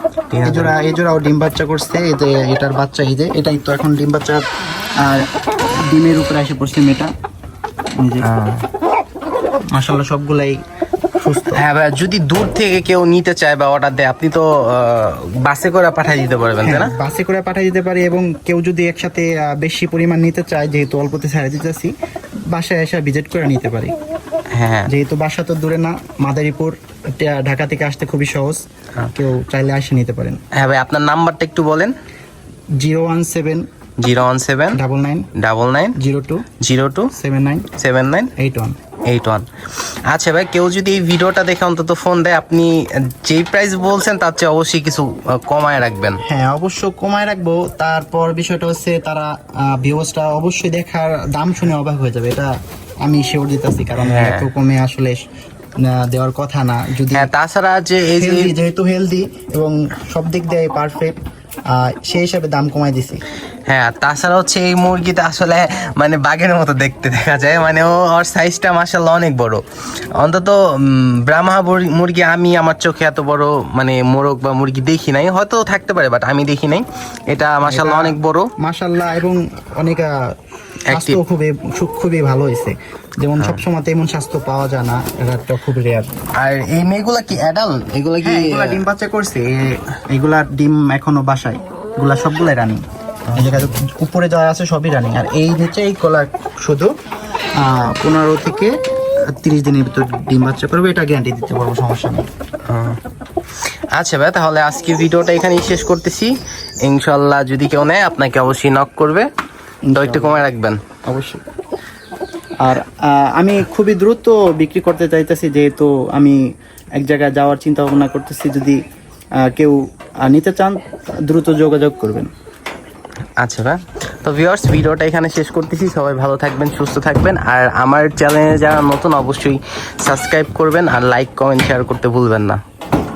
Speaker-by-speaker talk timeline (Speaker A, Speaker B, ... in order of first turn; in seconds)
Speaker A: 0.3-0.7, 8.2-8.6, 11.5-16.9, 24.5-24.9, 30.5-31.9, 34.0-34.8, 35.3-36.0, 36.6-37.1, 37.8-38.3, 39.1-39.5, 40.1-46.2, 54.0-54.5, 57.1-58.5, 63.7-69.6, 70.2-78.5, 80.9-81.2, 86.4-88.8, 93.3-93.8, 102.7-103.0, 104.0-106.3, 106.8-109.3, 109.9-110.8, 123.4-132.6
Speaker B: 0.4-4.4, 5.0-5.3, 5.9-7.1, 8.0-8.3, 9.7-10.6, 11.2-11.6, 16.6-21.9, 22.5-23.9, 24.9-28.6, 29.1-30.4, 32.8-33.7, 34.7-35.3, 36.0-36.5, 37.1-37.7, 38.4-38.8, 46.2-52.5, 53.0-55.2, 55.8-57.3, 58.2-61.1, 61.7-63.2, 77.6-80.2, 80.9-86.1, 88.2-92.8, 93.3-96.9, 97.6-98.8, 99.3-102.3, 109.8-110.4, 111.1-111.4, 112.6-116.4, 117.0-118.8, 119.4-122.3